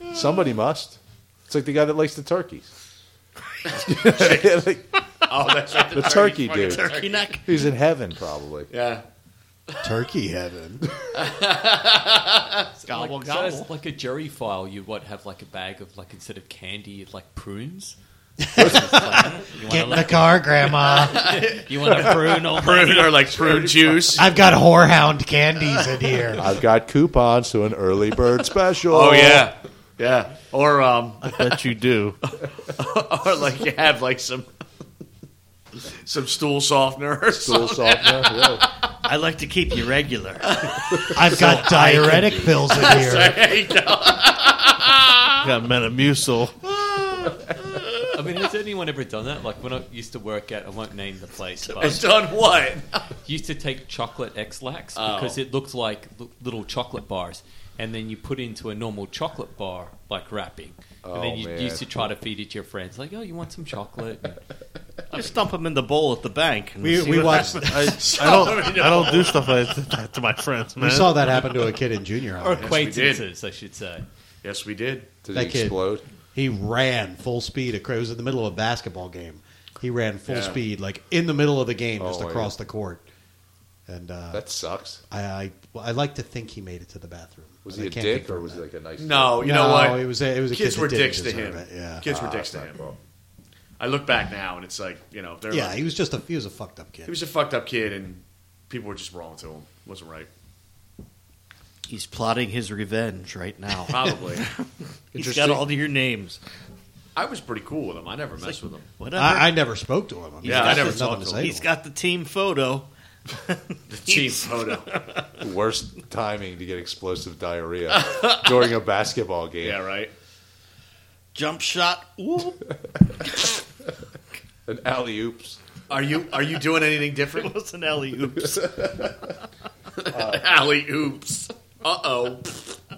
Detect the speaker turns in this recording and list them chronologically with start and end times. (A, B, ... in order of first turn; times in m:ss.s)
0:00.1-0:02.7 A
0:03.6-0:04.6 B
0:03.8-0:04.8 A
0:05.3-0:07.4 B
0:05.7-0:07.6 C
0:05.9-0:06.9 A
0:07.4-0:08.7 A
0:08.7-0:09.0 B
0:09.8-0:10.9 D
0:11.1-0:12.6 B
0:12.8-0:18.0 E
0:12.9-0:13.7 C
0:18.4-0:21.3 D
0:18.6-0:19.1 A
0:18.6-0:23.2 E
0:18.7-0:20.1 C
0:20.6-0:24.3 B
0:21.7-0:23.0 C
0:23.4-0:24.0 A
0:24.1-0:26.5 D
0:26.4-0:29.5 A
0:28.9-0:31.6 B
0:31.2-0:32.2 F
0:32.3-0:34.5 B
0:36.0-0:38.7 B
0:37.3-0:38.6 A
0:39.0-0:40.6 C
0:40.4-0:41.3 B
0:41.1-0:43.4 D
0:41.3-0:42.6 C
0:42.2-0:42.5 A
0:42.6-0:45.4 B
0:45.4-0:46.6 F
0:46.7-0:48.1 B
0:48.1-0:52.0 E
0:51.8-0:53.0 B
0:53.2-1:04.4 E
0:55.0-0:55.4 B
1:01.0-1:02.1 A
1:05.1-1:07.8 C
1:06.8-1:08.6 D
1:07.6-1:11.3 F
1:08.0-1:09.6 B
1:10.8-1:12.8 D
1:12.4-1:14.1 E
1:12.6-1:13.3 B
1:14.4-1:15.1 B
1:15.2-1:16.0 A
1:15.3-1:15.8 D
1:16.3-1:23.0 D
1:20.3-1:20.6 B
1:22.0-1:22.6 A
1:23.9-1:24.4 D
1:24.3-1:25.0 A
1:25.1-1:28.6 D
1:27.6-1:29.4 A
1:29.0-1:32.9 B
1:29.4-1:32.0 D
1:32.0-1:33.0 A
1:33.8-1:35.9 B
1:35.5-1:37.1 D
1:37.1-1:40.3 B
1:41.9-1:46.4 C
1:43.8-1:44.4 B
1:45.1-1:45.6 A
1:47.1-1:48.9 B
1:48.4-1:49.6 C
1:49.1-1:51.6 D
1:50.4-1:55.4 C
1:50.4-1:51.5 B
1:53.9-1:54.9 B
1:55.4-1:59.8 A
1:57.9-1:58.6 B
1:59.6-2:00.1 B
2:01.4-2:02.7 C
2:04.6-2:05.6 A
2:05.9-2:07.5 B
2:07.3-2:08.7 C
2:10.0-2:12.6 B
2:10.1-2:10.5 A